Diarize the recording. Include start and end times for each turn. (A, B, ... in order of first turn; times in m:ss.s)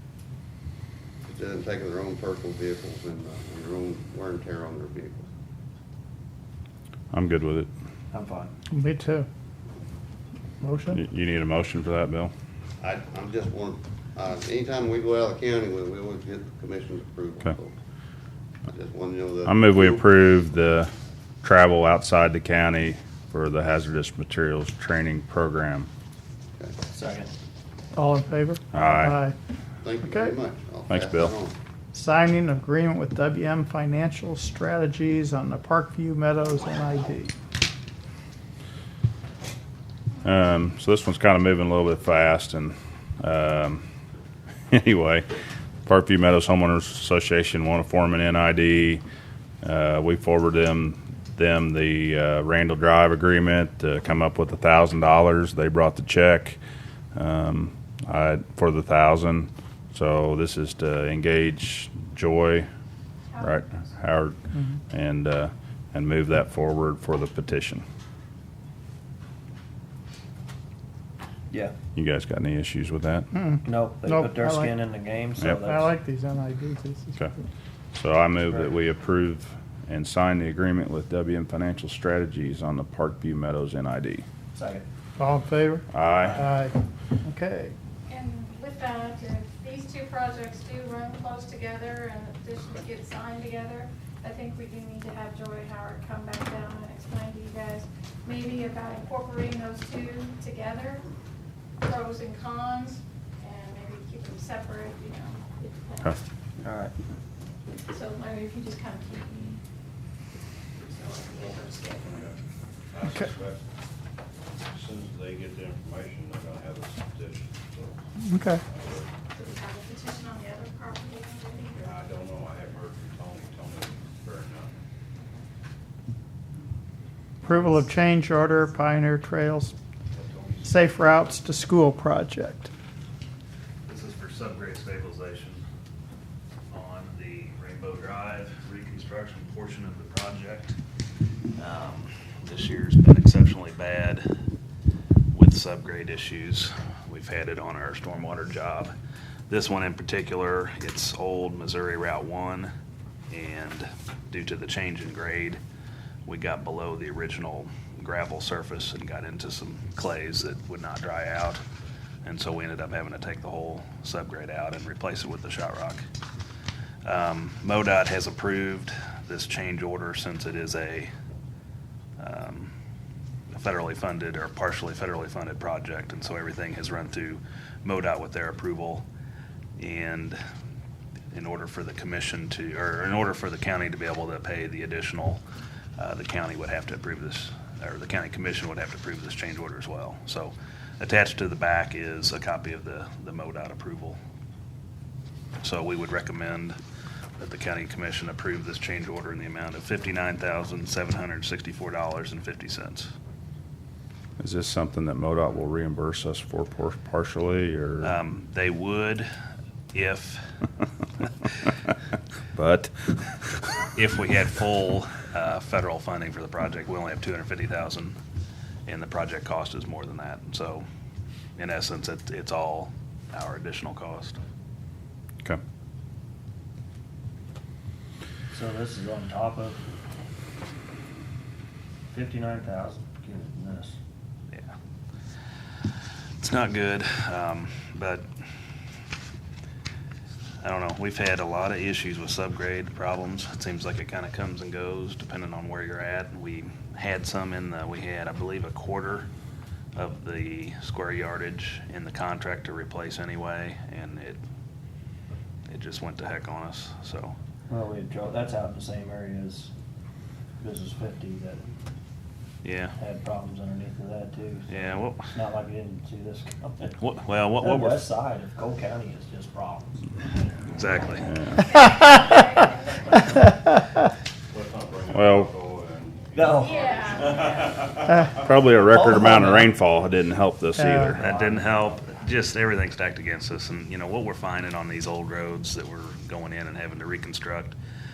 0:01.2-0:05.3 A
0:07.1-0:07.7 B
0:08.1-0:08.5 C
0:08.7-0:09.3 D
0:10.6-0:11.0 D
0:10.9-0:12.3 B
0:12.8-0:17.7 A
0:18.6-0:20.0 A
0:19.4-0:20.9 B
0:21.4-0:25.9 B
0:26.9-0:27.3 C
0:28.0-0:29.3 D
0:28.7-0:29.2 B
0:29.8-0:31.5 A
0:30.0-0:30.3 D
0:30.9-0:31.3 B
0:31.9-0:37.3 D
0:40.2-0:43.8 B
0:44.7-0:45.2 B
0:45.8-0:49.0 B
0:49.6-0:56.6 B
0:57.1-1:02.7 B
1:03.4-1:04.4 B
1:04.9-1:07.8 B
1:11.9-1:13.3 B
1:13.3-1:14.7 D
1:13.6-1:15.9 C
1:15.6-1:17.2 D
1:17.9-1:24.2 B
1:24.5-1:24.8 C
1:25.2-1:27.7 D
1:25.9-1:26.4 B
1:28.1-1:41.0 E
1:41.8-1:46.1 E
1:46.6-1:46.9 C
1:47.9-1:49.6 E
1:50.8-1:52.3 E
1:51.5-1:52.3 F
1:52.9-1:53.6 F
1:54.6-1:58.0 F
1:58.2-1:58.6 D
1:58.6-1:59.1 F
1:59.3-2:02.0 E
2:01.8-2:04.8 F
2:07.4-2:09.7 D
2:10.1-2:10.8 F
2:10.6-2:12.7 D
2:13.8-2:15.6 G
2:16.7-2:20.8 G
2:21.6-2:24.3 G
2:25.3-2:28.9 G
2:29.5-2:32.7 G
2:33.3-2:35.6 G
2:36.2-2:41.6 G
2:42.2-2:46.0 G
2:47.0-2:51.1 G
2:52.2-2:52.7 G
2:53.5-2:59.0 G
2:59.8-3:00.4 G
3:01.3-3:05.4 G
3:06.0-3:14.2 G
3:15.6-3:16.7 G
3:17.4-3:23.1 G
3:24.4-3:28.1 B
3:28.0-3:29.3 G
3:29.9-3:30.5 G
3:32.5-3:33.7 B
3:33.9-3:38.2 G
3:38.9-3:40.8 G
3:41.6-3:44.4 G
3:48.5-3:49.8 C
3:52.1-3:54.0 C
3:56.4-3:58.2 G
4:00.6-4:09.3 G
4:09.9-4:14.4 G
4:15.7-4:17.3 G
4:17.7-4:19.7 C
4:20.6-4:21.6 C
4:22.6-4:22.9 G
4:23.0-4:24.7 C
4:24.7-4:25.2 G
4:25.3-4:26.9 C
4:27.0-4:28.0 G
4:27.6-4:29.9 C
4:30.7-4:31.2 G
4:31.2-4:31.8 B
4:31.5-4:33.0 E
4:34.5-4:38.2 F
4:35.1-4:35.5 B
4:36.3-4:36.9 C
4:36.6-4:37.7 E
4:38.3-4:41.2 B
4:40.8-4:41.1 D
4:41.1-4:42.1 C
4:41.1-4:47.8 G